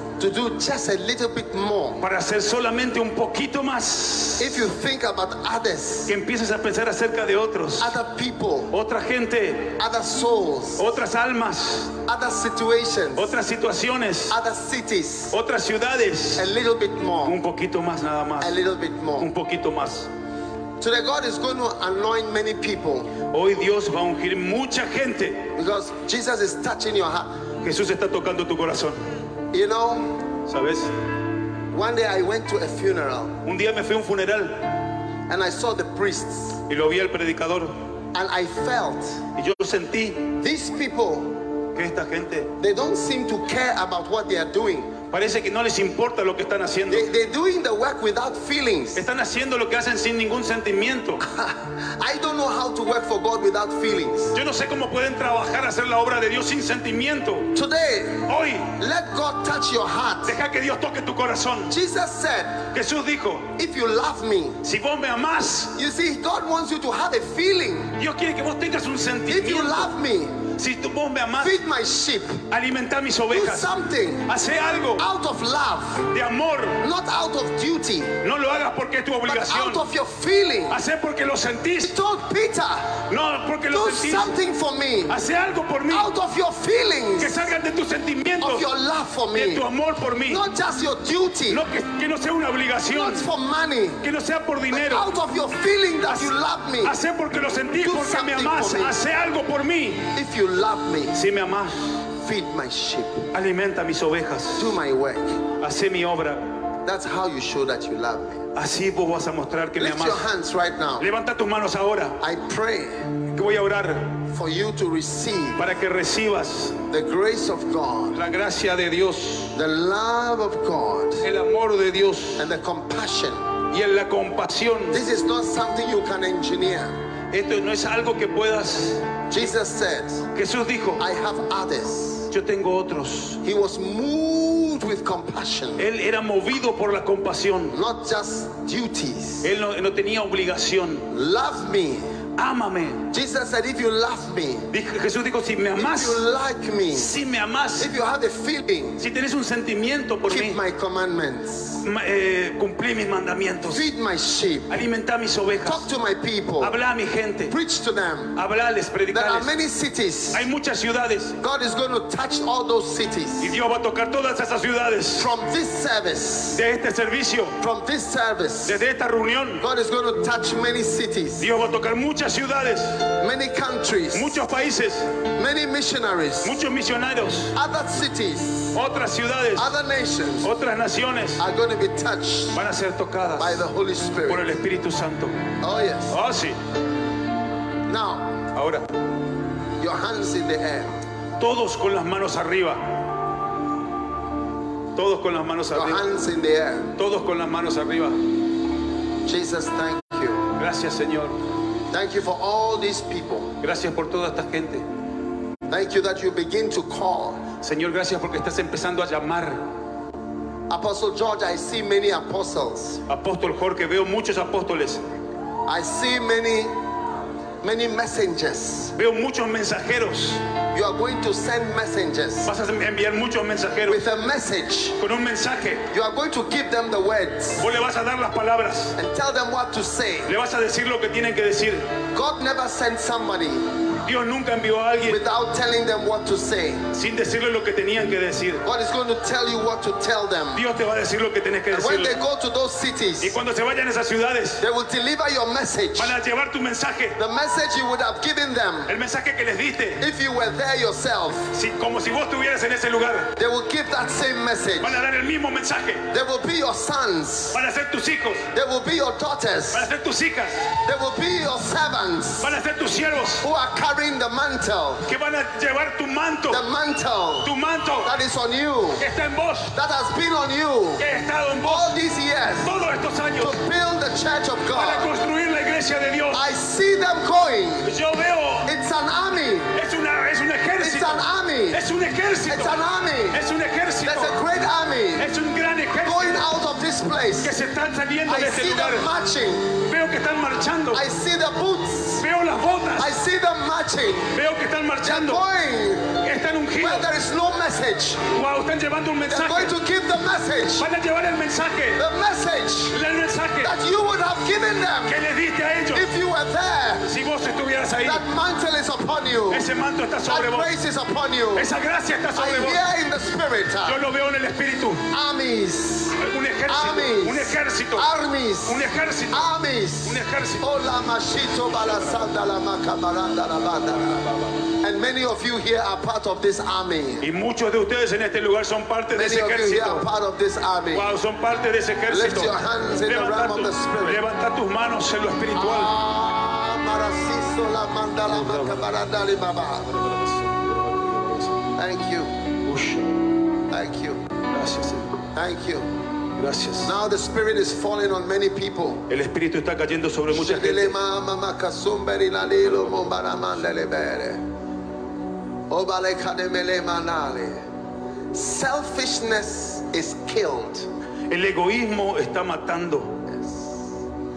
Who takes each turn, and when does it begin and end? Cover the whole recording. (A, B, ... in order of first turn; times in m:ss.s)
0:00.2-0:02.0 A
0:02.0-0:04.6 B
0:04.4-0:06.2 A
0:06.1-0:07.9 B
0:07.8-0:08.7 A
0:08.7-0:09.8 B
0:09.8-0:10.9 A
0:10.8-0:12.0 B
0:12.1-0:13.4 A
0:13.2-0:14.4 B
0:14.3-0:15.4 A
0:15.3-0:16.5 B
0:16.4-0:17.4 A
0:17.2-0:18.6 B
0:18.4-0:19.3 A
0:19.2-0:20.1 B
0:20.8-0:23.1 A
0:23.3-0:25.5 B
0:25.6-0:27.3 A
0:27.6-0:29.0 B
0:29.5-0:30.2 A
0:30.5-0:30.9 B
0:31.7-0:33.4 A
0:33.4-0:34.7 B
0:35.3-0:36.6 A
0:36.7-0:37.8 B
0:38.1-0:39.2 A
0:39.4-0:40.3 B
0:40.3-0:41.4 A
0:41.8-0:42.5 B
0:42.6-0:45.0 A
0:45.1-0:47.1 B
0:46.9-0:49.0 A
0:49.0-0:51.2 B
0:51.2-0:54.4 A
0:54.3-0:57.5 B
0:57.5-1:00.4 A
0:58.3-0:58.7 B
1:00.3-1:01.7 B
1:01.7-1:02.7 A
1:02.7-1:03.5 B
1:03.5-1:04.6 A
1:04.6-1:05.7 B
1:05.8-1:08.0 A
1:08.0-1:09.9 B
1:09.3-1:10.5 A
1:10.6-1:11.6 B
1:11.4-1:12.4 A
1:12.5-1:13.7 B
1:13.3-1:14.3 A
1:14.3-1:15.1 B
1:15.0-1:16.1 A
1:16.1-1:16.8 B
1:16.8-1:18.2 A
1:18.2-1:19.8 B
1:19.3-1:20.8 A
1:20.7-1:21.9 B
1:21.8-1:23.0 A
1:23.1-1:24.3 B
1:23.7-1:25.2 A
1:25.1-1:26.1 B
1:25.9-1:27.5 A
1:27.2-1:28.7 B
1:28.4-1:29.6 A
1:29.3-1:30.4 B
1:30.3-1:31.6 A
1:31.5-1:33.3 B
1:32.9-1:34.0 A
1:34.0-1:35.1 B
1:34.7-1:37.0 A
1:36.1-1:40.1 B
1:37.8-1:39.0 A
1:40.1-1:41.2 A
1:41.1-1:42.0 B
1:42.2-1:43.3 A
1:43.3-1:44.8 B
1:44.6-1:45.5 A
1:45.6-1:46.5 B
1:46.8-1:48.5 A
1:48.6-1:50.2 B
1:49.8-1:51.1 A
1:51.0-1:52.2 B
1:52.2-1:53.2 A
1:53.3-1:54.2 B
1:54.3-1:55.6 A
1:55.6-1:56.8 B
1:56.9-1:58.2 A
1:58.1-1:59.5 B
1:59.5-2:01.2 A
2:01.2-2:02.5 B
2:02.4-2:03.5 A
2:03.7-2:05.0 B
2:04.9-2:07.0 A
2:07.3-2:09.2 B
2:09.3-2:10.3 A
2:10.4-2:11.0 B
2:11.0-2:12.3 A
2:12.3-2:13.4 B
2:13.4-2:15.9 A
2:15.8-2:17.8 B
2:17.7-2:19.5 A
2:19.4-2:21.1 B
2:21.1-2:22.1 A
2:22.4-2:23.1 B
2:23.1-2:24.7 A
2:24.7-2:26.2 B
2:25.8-2:27.2 A
2:26.9-2:27.9 B
2:27.8-2:29.0 A
2:29.0-2:30.6 B
2:30.3-2:31.8 A
2:31.8-2:33.9 B
2:33.7-2:34.7 A
2:34.7-2:35.9 B
2:35.6-2:36.8 A
2:36.6-2:37.6 B
2:37.5-2:38.4 A
2:38.4-2:39.5 B
2:39.1-2:40.5 A
2:40.3-2:41.4 B
2:41.4-2:43.6 A
2:43.4-2:45.3 B
2:45.2-2:46.6 A
2:46.5-2:47.6 B
2:47.6-2:48.8 A
2:48.6-2:49.6 B
2:49.6-2:51.5 A
2:51.4-2:53.1 B
2:53.2-2:54.4 A
2:54.1-2:55.2 B
2:55.4-2:56.6 A
2:56.4-2:57.5 B
2:57.5-2:58.8 A
2:58.7-2:59.7 B
2:59.6-3:00.5 A
3:00.4-3:01.4 B
3:01.4-3:02.6 A
3:02.5-3:03.6 B
3:03.4-3:04.5 A
3:04.3-3:05.4 B
3:05.6-3:06.2 A
3:06.1-3:06.6 B
3:07.9-3:08.4 A
3:08.6-3:08.9 B
3:09.8-3:11.0 A
3:11.4-3:12.8 B
3:15.0-3:16.0 B
3:15.7-3:16.9 A
3:17.0-3:18.2 B
3:19.2-3:20.5 A
3:20.6-3:21.4 B
3:21.9-3:23.5 A
3:23.6-3:24.8 B
3:25.7-3:27.4 A
3:27.6-3:29.6 B
3:30.7-3:33.0 A
3:33.1-3:35.0 B
3:35.7-3:36.8 A
3:37.6-3:39.0 A
3:39.0-3:40.4 B
3:40.7-3:42.5 A
3:42.5-3:44.0 B
3:43.9-3:45.0 A
3:45.0-3:45.9 B
3:45.9-3:47.7 A
3:47.6-3:49.0 B
3:49.0-3:50.3 A
3:50.3-3:51.9 B
3:52.1-3:53.7 A
3:54.0-3:55.2 B
3:55.1-3:56.9 A
3:56.9-3:58.6 B
3:58.6-4:00.7 A
4:00.6-4:02.2 B
4:01.7-4:03.4 A
4:03.2-4:04.6 B
4:04.6-4:06.2 A
4:06.0-4:07.2 B
4:07.2-4:09.0 A
4:08.9-4:10.0 B
4:10.0-4:11.5 A
4:11.5-4:13.3 B
4:13.4-4:15.0 A
4:14.8-4:16.0 B
4:16.1-4:17.6 A
4:17.5-4:18.5 B
4:18.5-4:19.9 A
4:19.7-4:20.7 B
4:20.8-4:22.6 A
4:22.4-4:23.4 B
4:23.4-4:25.0 A
4:25.1-4:26.6 B
4:26.5-4:29.0 A
4:27.4-4:28.1 B
4:29.0-4:29.7 B
4:29.7-4:31.0 A
4:31.0-4:32.0 B
4:31.6-4:32.7 A
4:32.6-4:33.6 B
4:33.4-4:35.1 A
4:34.7-4:36.4 B
4:36.3-4:37.9 A
4:37.8-4:38.7 B
4:38.6-4:39.7 A
4:39.8-4:42.8 B
4:40.8-4:41.8 A
4:42.5-4:43.4 A
4:43.3-4:44.3 B
4:44.0-4:45.3 A
4:45.2-4:46.4 B
4:46.0-4:47.5 A
4:47.4-4:49.1 B
4:48.3-4:49.8 A
4:49.8-4:51.0 B
4:50.9-4:52.2 A
4:52.2-4:53.1 B
4:53.0-4:54.3 A
4:54.4-4:55.4 B
4:55.0-4:56.2 A
4:56.2-4:57.1 B
4:56.8-4:58.3 A
4:58.3-4:59.8 B
4:59.3-5:00.9 A
5:00.8-5:02.0 B
5:02.0-5:03.0 A
5:02.9-5:03.7 B
5:03.6-5:05.2 A
5:05.1-5:06.1 B
5:05.9-5:07.1 A
5:07.1-5:08.2 B
5:08.0-5:09.7 A
5:09.5-5:10.7 B
5:10.3-5:11.7 A
5:11.6-5:12.8 B
5:12.4-5:14.0 A
5:13.8-5:15.0 B
5:15.1-5:24.2 A
5:16.2-5:18.1 B
5:18.7-5:19.5 B
5:20.0-5:20.7 B
5:21.7-5:22.3 B
5:24.8-5:27.3 A
5:27.2-5:30.0 B
5:29.1-5:31.1 A
5:30.9-5:35.9 B
5:32.1-5:34.2 A
5:35.6-5:39.9 A
5:38.3-5:38.8 B
5:40.0-5:41.6 B
5:41.8-5:42.3 A
5:42.6-5:43.2 B
5:43.7-5:44.2 A
5:44.5-5:45.1 B
5:45.4-5:45.9 A
5:46.4-5:46.9 B
5:46.8-5:49.0 A
5:49.1-5:51.0 B
5:50.3-5:54.4 A
5:55.7-5:57.6 A
5:58.3-6:00.9 A
6:01.3-6:03.1 B
6:03.3-6:03.8 A